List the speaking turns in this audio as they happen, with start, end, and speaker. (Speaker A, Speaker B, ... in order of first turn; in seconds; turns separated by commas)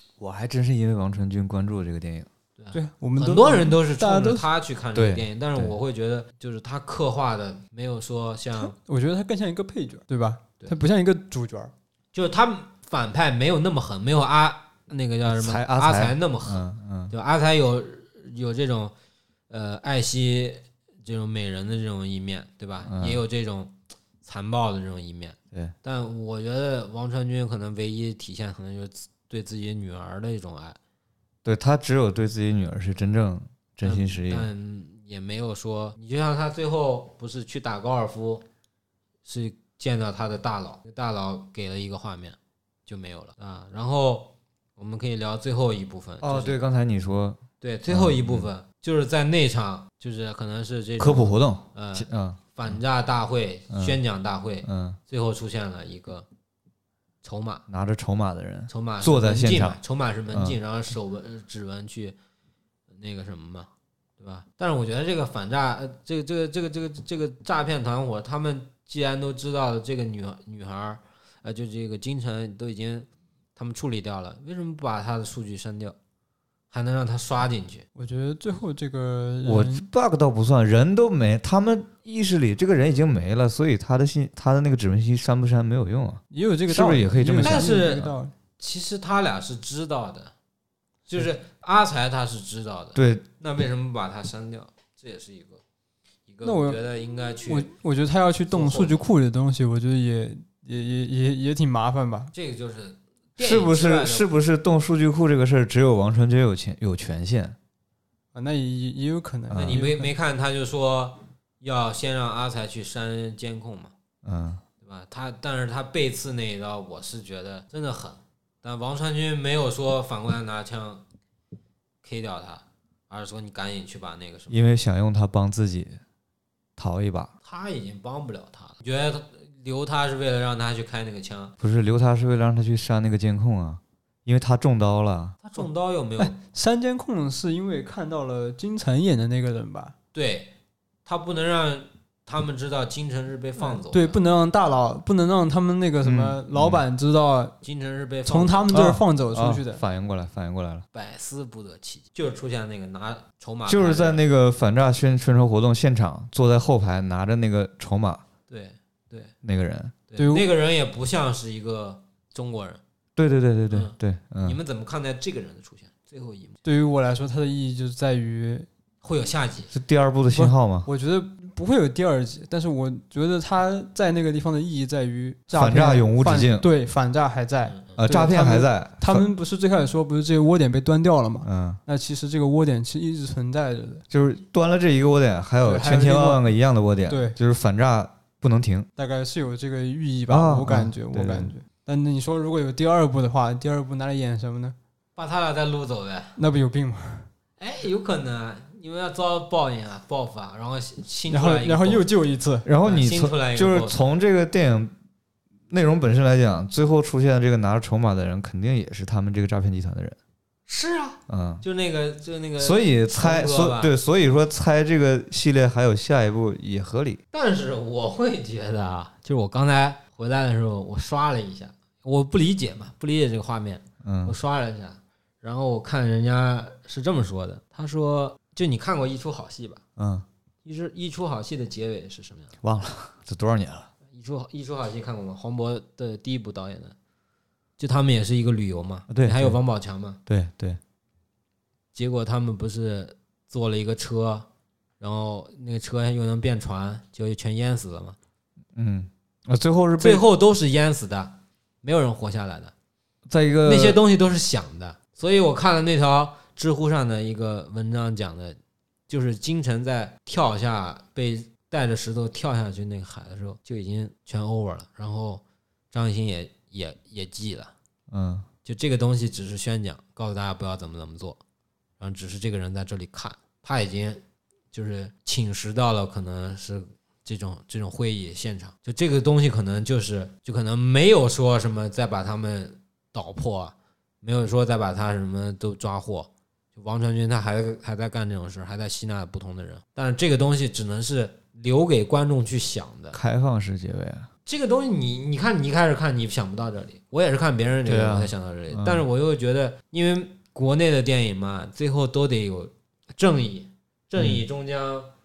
Speaker A: 0.2-2.3, Speaker B: 2.6-8.8, Speaker C: 2.7-4.5, Speaker A: 5.0-5.8, Speaker C: 8.6-11.7, Speaker B: 12.1-18.9, Speaker A: 15.3-17.1, Speaker B: 19.5-30.8, Speaker A: 22.9-23.2, Speaker A: 31.4-34.5, Speaker B: 33.8-38.5, Speaker B: 39.2-46.6, Speaker A: 46.2-48.5, Speaker B: 47.6-56.3, Speaker A: 51.0-52.8, Speaker A: 53.7-54.0, Speaker A: 54.6-55.0, Speaker B: 57.2-57.6, Speaker A: 57.7-60.6, Speaker B: 58.7-62.2, Speaker B: 62.9-76.0, Speaker B: 76.7-77.8, Speaker C: 78.0-79.8, Speaker A: 79.4-87.8, Speaker C: 86.3-88.3, Speaker B: 87.4-90.3, Speaker B: 91.1-95.6, Speaker A: 93.0-93.2, Speaker B: 96.3-97.7, Speaker C: 96.4-96.8, Speaker C: 97.5-102.3, Speaker B: 98.5-99.0, Speaker B: 102.3-104.3, Speaker A: 103.4-107.6, Speaker C: 108.3-110.1, Speaker A: 109.5-109.8, Speaker B: 109.6-113.9, Speaker A: 114.2-114.6, Speaker B: 114.8-121.0, Speaker B: 122.0-124.6, Speaker A: 124.5-126.0, Speaker A: 126.8-127.3, Speaker B: 127.4-131.6, Speaker A: 131.6-135.4, Speaker B: 135.4-136.3, Speaker C: 136.2-139.9, Speaker B: 140.1-140.5, Speaker B: 141.1-144.2, Speaker C: 143.6-147.6, Speaker A: 146.0-146.8, Speaker B: 147.6-148.8, Speaker C: 148.3-149.8, Speaker A: 148.7-150.9, Speaker B: 150.9-154.2, Speaker A: 153.7-158.2, Speaker B: 158.5-159.3, Speaker A: 159.4-159.9, Speaker B: 160.1-162.8, Speaker C: 160.2-160.5, Speaker A: 163.2-164.6, Speaker B: 163.7-166.6, Speaker C: 166.6-168.7, Speaker B: 169.0-169.7, Speaker A: 169.7-170.9, Speaker C: 170.3-184.1, Speaker A: 175.5-176.7, Speaker B: 177.7-178.0, Speaker A: 178.0-179.3, Speaker A: 181.4-181.8, Speaker A: 184.1-188.9, Speaker C: 185.6-186.5, Speaker C: 187.1-187.4, Speaker C: 189.0-194.8, Speaker A: 190.3-191.5, Speaker B: 195.2-196.4, Speaker C: 196.4-197.3, Speaker B: 197.6-202.1, Speaker C: 201.3-202.7, Speaker A: 202.7-204.9, Speaker B: 202.8-204.0, Speaker A: 205.7-210.2, Speaker B: 210.7-213.9, Speaker A: 211.3-211.6, Speaker A: 212.6-217.2, Speaker B: 217.3-229.8, Speaker A: 224.0-224.4, Speaker A: 230.0-230.3, Speaker B: 230.7-232.5, Speaker A: 232.6-233.9, Speaker B: 234.1-237.0, Speaker B: 237.8-240.2, Speaker A: 239.1-239.6, Speaker A: 240.3-240.8, Speaker B: 241.9-244.5, Speaker B: 245.0-248.2, Speaker A: 248.8-250.2, Speaker B: 250.0-252.7, Speaker A: 253.3-254.0, Speaker B: 253.7-258.6, Speaker B: 259.1-267.7, Speaker A: 268.1-268.5, Speaker B: 268.6-271.4, Speaker B: 272.0-293.2, Speaker A: 293.1-294.3, Speaker B: 294.5-305.1, Speaker A: 297.9-299.1